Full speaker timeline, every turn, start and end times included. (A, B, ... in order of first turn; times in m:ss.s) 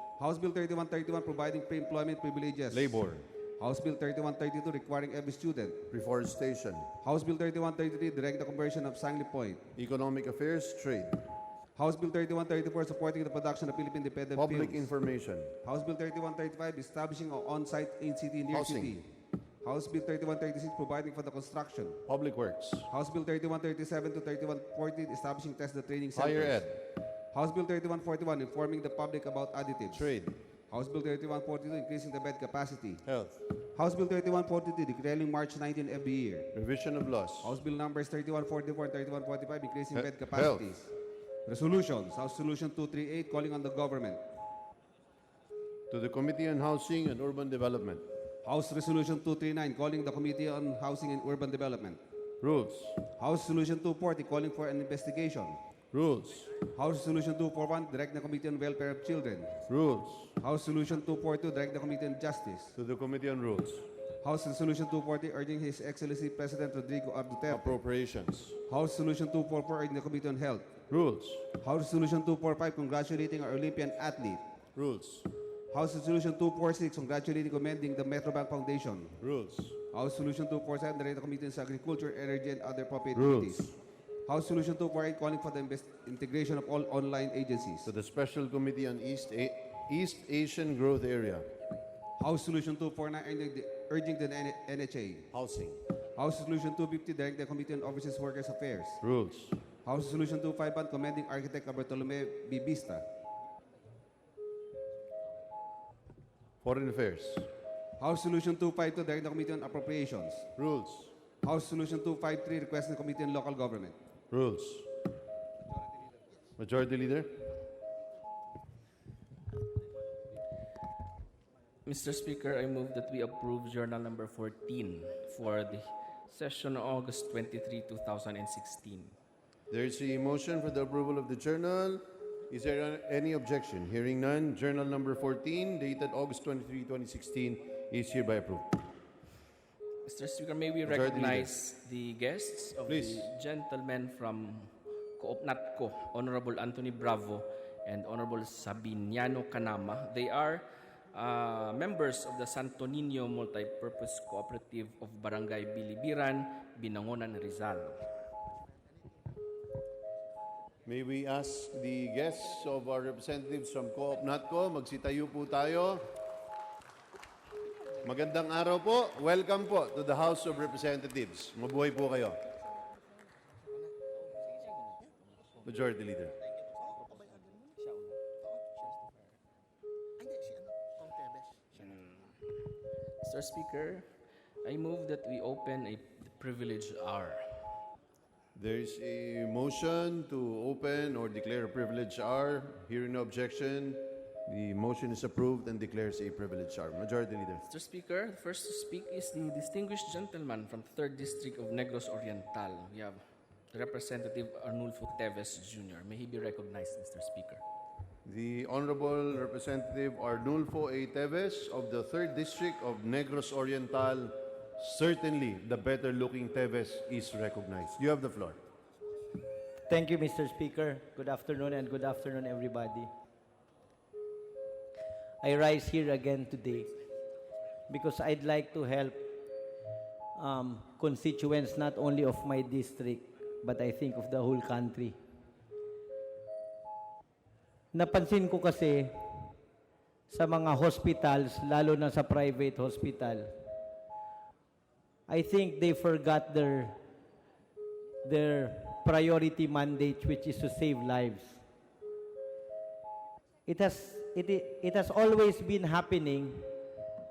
0:00.2-0:03.0 A
0:02.7-0:03.2 B
0:03.6-0:05.8 A
0:05.9-0:06.9 B
0:07.0-0:09.7 A
0:09.8-0:11.2 B
0:11.8-0:14.9 A
0:14.4-0:15.6 B
0:15.6-0:19.1 A
0:18.5-0:19.0 B
0:19.6-0:22.0 A
0:22.0-0:22.9 B
0:22.9-0:26.6 A
0:26.1-0:26.8 B
0:27.3-0:30.1 A
0:29.9-0:30.4 B
0:30.7-0:33.0 A
0:33.0-0:33.4 B
0:33.7-0:36.5 A
0:36.5-0:37.5 B
0:37.4-0:40.9 A
0:39.9-0:40.7 B
0:41.5-0:44.2 A
0:45.9-0:48.0 B
0:48.4-0:52.0 A
0:52.4-0:53.0 B
0:53.2-0:55.6 A
0:55.9-0:56.5 B
0:56.6-0:59.6 A
0:59.6-1:00.4 B
1:00.4-1:02.8 A
1:02.8-1:03.8 B
1:04.2-1:07.7 A
1:07.5-1:08.6 B
1:08.7-1:10.7 A
1:10.9-1:11.5 B
1:11.6-1:14.4 A
1:14.7-1:15.3 B
1:15.7-1:19.2 A
1:19.2-1:19.8 B
1:19.9-1:23.7 A
1:23.1-1:23.8 B
1:24.2-1:27.9 A
1:27.8-1:31.5 B
1:32.2-1:35.3 A
1:35.3-1:35.8 B
1:36.2-1:39.0 A
1:39.0-1:39.6 B
1:39.8-1:43.0 A
1:46.6-1:47.5 B
1:48.0-1:50.5 A
1:50.6-1:51.1 B
1:51.4-1:54.0 A
1:54.3-1:54.9 B
1:56.6-1:57.5 B
2:01.8-2:09.1 C
2:09.7-2:18.8 B
2:20.0-2:38.0 C
2:20.8-2:21.5 B
2:22.9-2:23.3 B
2:40.8-2:46.1 B
2:48.0-2:52.4 B
2:55.6-2:56.3 B
3:03.2-3:04.1 C
3:04.6-3:07.4 C
3:08.5-3:17.6 B
3:17.6-3:27.6 C
3:28.2-3:38.6 B
3:39.9-3:43.1 D
3:45.4-3:46.9 D
3:47.9-3:49.2 D
3:50.4-3:55.2 D
3:57.9-3:59.5 D
4:00.3-4:03.5 D
4:05.3-4:07.0 D
4:08.2-4:11.6 D
4:13.7-4:16.7 D